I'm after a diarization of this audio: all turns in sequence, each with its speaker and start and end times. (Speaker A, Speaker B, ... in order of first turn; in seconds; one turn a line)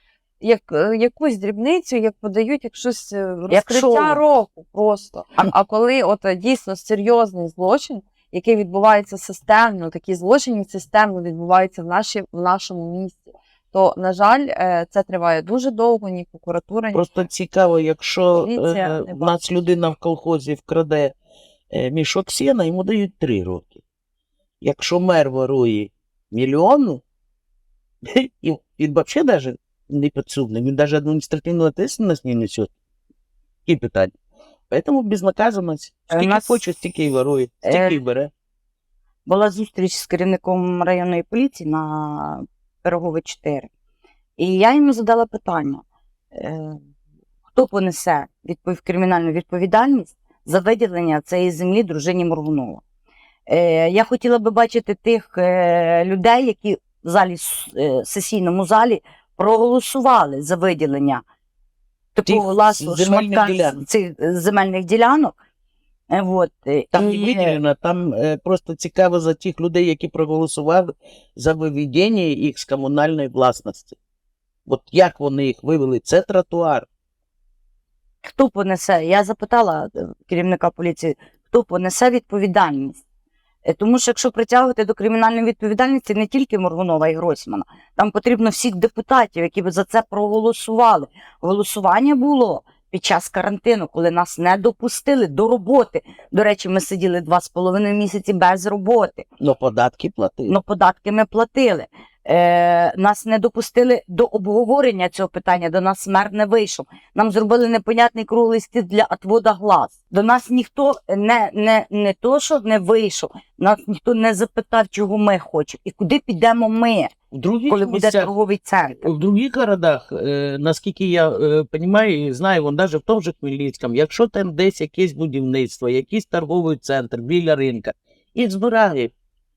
Speaker A: 0.4-17.0
Speaker B: 3.5-4.2
Speaker C: 16.9-21.1
Speaker A: 18.4-19.4
Speaker C: 21.7-23.8
Speaker C: 24.6-27.0
Speaker C: 28.0-32.7
Speaker C: 33.7-34.1
Speaker C: 34.7-38.3
Speaker B: 36.1-36.6
Speaker B: 37.6-38.0
Speaker B: 39.3-43.7
Speaker B: 44.4-45.8
Speaker B: 46.3-46.8
Speaker B: 47.5-52.8
Speaker B: 53.5-61.2
Speaker B: 62.1-65.3
Speaker C: 62.2-63.8
Speaker B: 66.1-67.6
Speaker C: 66.9-74.0
Speaker C: 74.7-76.9
Speaker B: 78.2-83.0
Speaker B: 83.7-99.3
Speaker C: 99.4-100.6
Speaker B: 100.5-117.1
Speaker C: 117.3-118.3
Speaker B: 117.7-119.1
Speaker C: 119.0-129.1